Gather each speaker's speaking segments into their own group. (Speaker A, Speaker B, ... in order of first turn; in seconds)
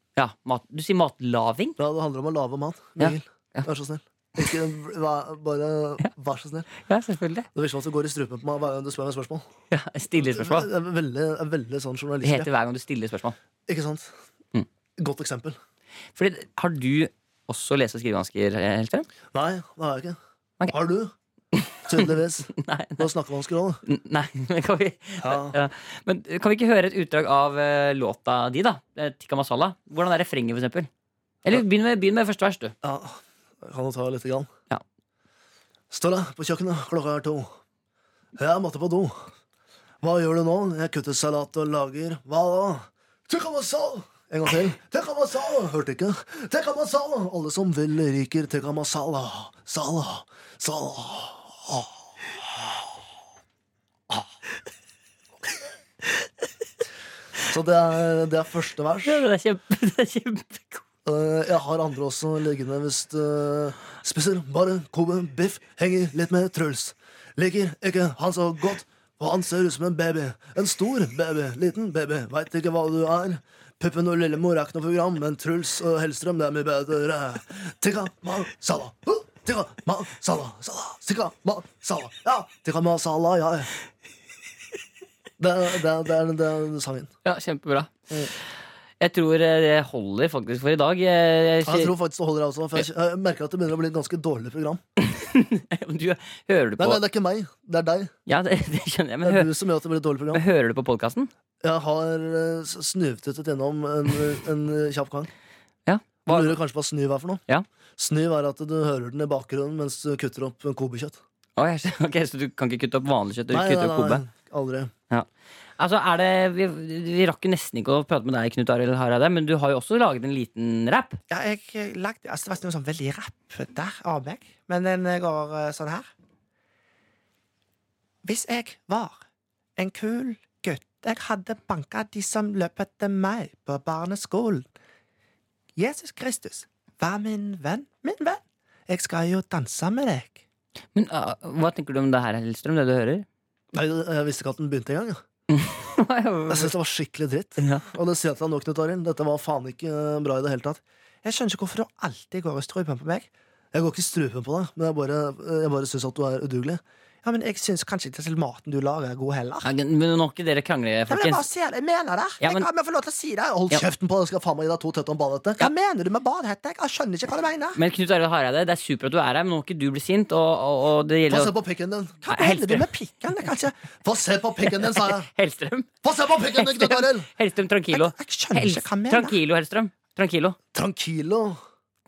Speaker A: 0.2-1.8, 3.0-3.7, 6.8-7.5, 9.7-10.7, 12.2-13.4, 16.2-19.1, 21.5-23.1, 23.9-30.9, 31.4-32.8, 59.0-60.8, 87.2-88.1, 89.0-91.9, 95.0-97.0, 98.3-99.5, 100.3-101.3, 105.9-106.6, 111.6-114.2, 115.8-121.2, 140.9-143.3, 145.5-146.7, 147.6-147.8, 159.6-161.4, 162.4-162.7, 167.8-171.5, 172.3-172.9, 174.6-175.9, 176.5-180.6
Speaker B: 1.8-6.7, 7.5-9.4, 10.2-12.5, 13.7-14.1, 15.0-15.6, 19.3-20.2, 20.7-21.1, 21.9-23.8, 25.2-25.6, 32.8-34.5, 35.9-37.5, 38.4-39.2, 40.0-51.9, 57.5-59.2, 61.0-83.7, 85.4-87.1, 91.7-94.8, 96.8-98.1, 99.2-100.4, 101.6-105.3, 106.3-107.4, 108.0-111.2, 113.5-114.9, 143.7-145.2, 146.5-150.8, 153.7-156.8, 163.6-165.7, 171.3-172.2, 173.9-175.3, 176.0-177.3, 180.7-181.6
Speaker C: 121.3-126.1, 128.2-129.2, 129.8-134.7, 135.8-140.4, 151.2-153.3, 157.2-159.7, 161.1-163.6, 165.6-167.8, 172.2-173.8, 177.9-179.4